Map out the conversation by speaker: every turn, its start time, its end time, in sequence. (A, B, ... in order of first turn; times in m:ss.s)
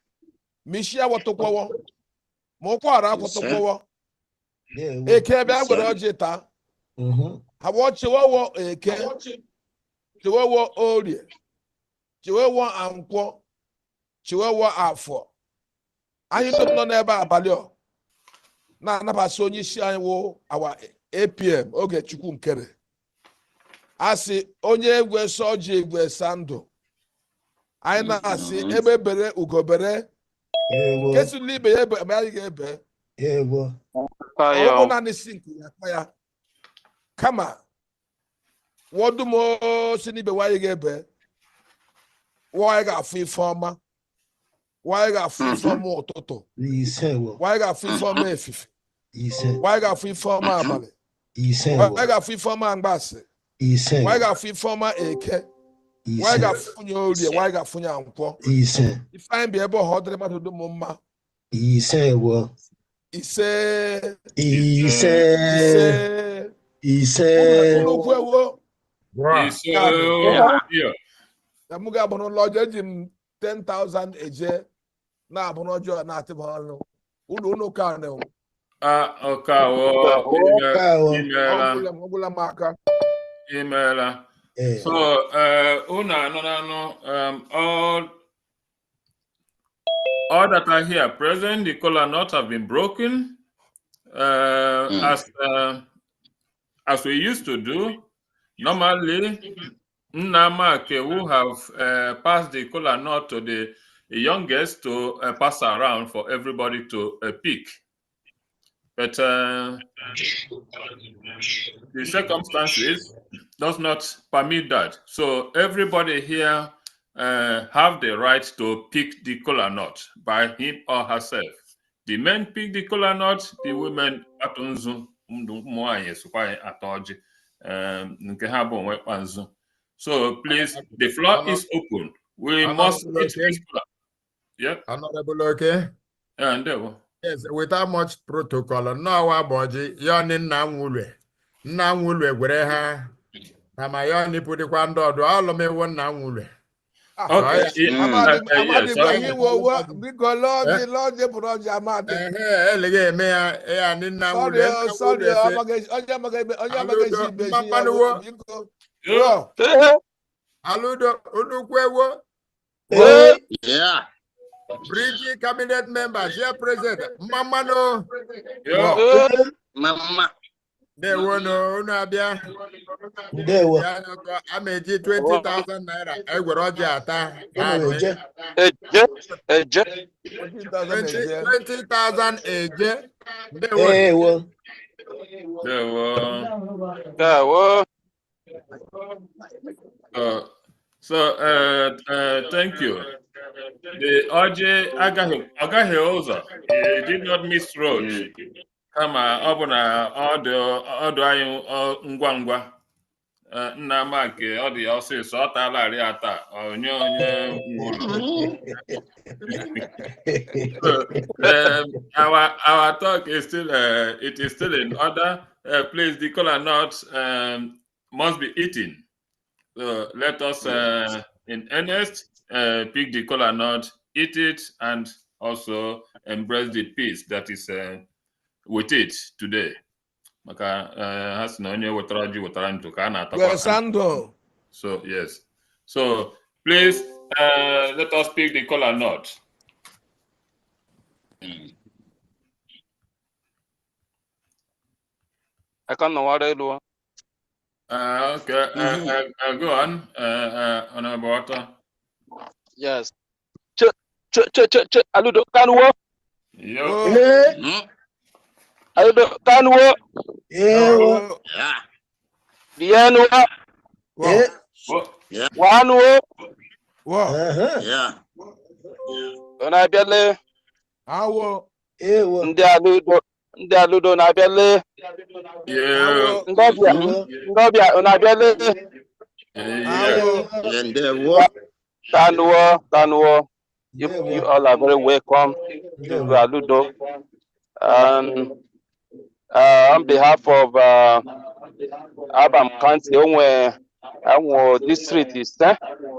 0:00.7-0:01.7 A
0:02.6-0:03.8 A
0:03.2-0:03.6 B
0:04.8-0:05.3 C
0:05.1-0:06.4 A
0:05.6-0:05.9 B
0:07.0-0:07.4 C
0:07.6-0:09.1 A
0:10.2-0:11.2 A
0:12.2-0:13.4 A
0:14.2-0:15.3 A
0:16.3-0:17.7 A
0:18.8-0:22.7 A
0:24.0-0:26.7 A
0:27.8-0:30.0 A
0:28.0-0:28.8 B
0:30.7-0:31.3 C
0:31.0-0:32.8 A
0:33.2-0:33.8 C
0:34.0-0:34.9 D
0:34.5-0:36.1 A
0:37.2-0:37.6 A
0:38.9-0:41.1 A
0:42.5-0:43.8 A
0:44.8-0:46.4 A
0:45.4-0:45.8 B
0:46.6-0:47.4 C
0:47.4-0:48.7 A
0:47.9-0:48.3 B
0:49.1-0:49.6 C
0:49.6-0:50.9 A
0:50.4-0:50.8 B
0:51.4-0:52.1 C
0:51.8-0:53.2 A
0:53.6-0:54.3 C
0:54.0-0:55.4 A
0:56.1-0:56.6 C
0:56.2-0:58.4 A
0:57.1-0:57.4 B
0:58.4-0:59.0 C
0:59.1-1:01.0 A
1:01.5-1:02.6 C
1:03.1-1:04.2 A
1:04.4-1:06.0 C
1:04.5-1:05.3 E
1:05.5-1:06.5 A
1:06.8-1:07.9 C
1:07.4-1:08.6 A
1:09.2-1:10.4 F
1:09.3-1:10.9 E
1:09.7-1:10.4 A
1:11.7-1:14.6 A
1:15.3-1:18.3 A
1:18.8-1:21.8 E
1:20.0-1:20.6 D
1:20.7-1:21.3 C
1:21.5-1:22.8 A
1:23.5-1:24.2 E
1:24.6-1:25.0 C
1:24.8-1:28.1 E
1:30.3-1:33.4 E
1:34.1-1:35.8 E
1:36.9-1:38.0 E
1:38.6-1:39.4 E
1:40.1-1:47.7 E
1:49.0-1:49.8 E
1:51.9-2:13.8 E
2:10.7-2:11.6 F
2:12.6-2:13.6 F
2:14.6-2:14.8 E
2:14.9-2:15.9 F
2:16.4-2:17.0 E
2:17.2-2:21.1 F
2:21.6-2:23.1 F
2:23.8-2:26.5 F
2:27.2-2:32.2 A
2:27.3-2:29.3 E
2:27.4-2:27.8 F
2:27.8-2:28.4 B
2:29.0-2:30.0 F
2:32.1-2:35.6 F
2:34.3-2:39.5 A
2:36.7-2:38.2 F
2:39.0-2:39.4 E
2:39.6-2:40.0 D
2:40.6-2:42.2 F
2:42.9-2:43.4 C
2:42.9-2:43.4 D
2:43.5-2:44.0 B
2:44.9-2:48.1 F
2:48.6-2:49.0 E
2:48.7-2:49.0 A
2:48.9-2:49.5 C
2:49.0-2:49.3 D
2:49.8-2:50.3 B
2:51.0-2:52.4 F
2:51.1-2:51.4 B
2:53.3-2:53.9 C
2:53.4-2:58.2 F
2:55.2-2:55.5 D
2:57.6-2:58.2 C
2:58.6-2:59.9 D
3:00.4-3:01.5 A
3:00.9-3:04.0 F
3:03.8-3:04.5 C
3:05.6-3:06.5 E
3:07.2-3:07.9 D
3:10.1-3:10.5 E
3:11.0-3:13.1 E
3:13.9-3:18.3 E
3:17.9-3:18.3 B
3:18.9-3:22.7 E
3:23.5-3:28.2 E
3:27.8-3:30.9 C
3:28.0-3:28.5 B
3:30.8-3:39.0 E
3:39.8-3:48.0 E
3:48.7-3:49.8 E
3:50.4-3:53.8 E
3:53.3-3:54.3 A
3:54.7-3:59.4 E
4:05.9-4:06.8 D
4:07.9-4:11.7 E
4:08.8-4:09.1 B
4:12.8-4:13.1 D
4:13.8-4:15.9 D
4:16.6-4:17.0 E
4:16.8-4:17.2 A
4:17.0-4:17.6 C
4:17.6-4:17.8 B
4:19.0-4:20.0 D
4:20.5-4:21.2 C
4:20.7-4:21.4 A
4:21.5-4:21.8 B
4:22.8-4:23.5 D
4:24.2-4:24.4 A
4:24.2-4:24.5 C
4:24.9-4:25.1 E
4:25.6-4:26.2 D
4:27.1-4:27.4 A
4:27.3-4:27.9 C
4:27.8-4:28.1 B
4:29.6-4:30.4 D
4:31.1-4:31.6 A
4:32.0-4:32.5 C
4:32.4-4:34.8 D
4:35.7-4:37.5 E
4:35.9-4:36.5 A
4:36.5-4:38.8 D
4:36.8-4:37.3 C
4:39.6-4:40.3 E
4:39.9-4:40.5 A
4:40.0-4:40.8 C
4:40.6-4:41.5 B
4:42.1-4:43.5 D
4:44.0-4:44.5 C
4:44.0-4:45.6 D
4:46.0-4:46.4 C
4:46.1-4:46.9 D
4:47.8-4:48.5 D
4:49.5-4:51.2 D
4:52.3-4:55.8 D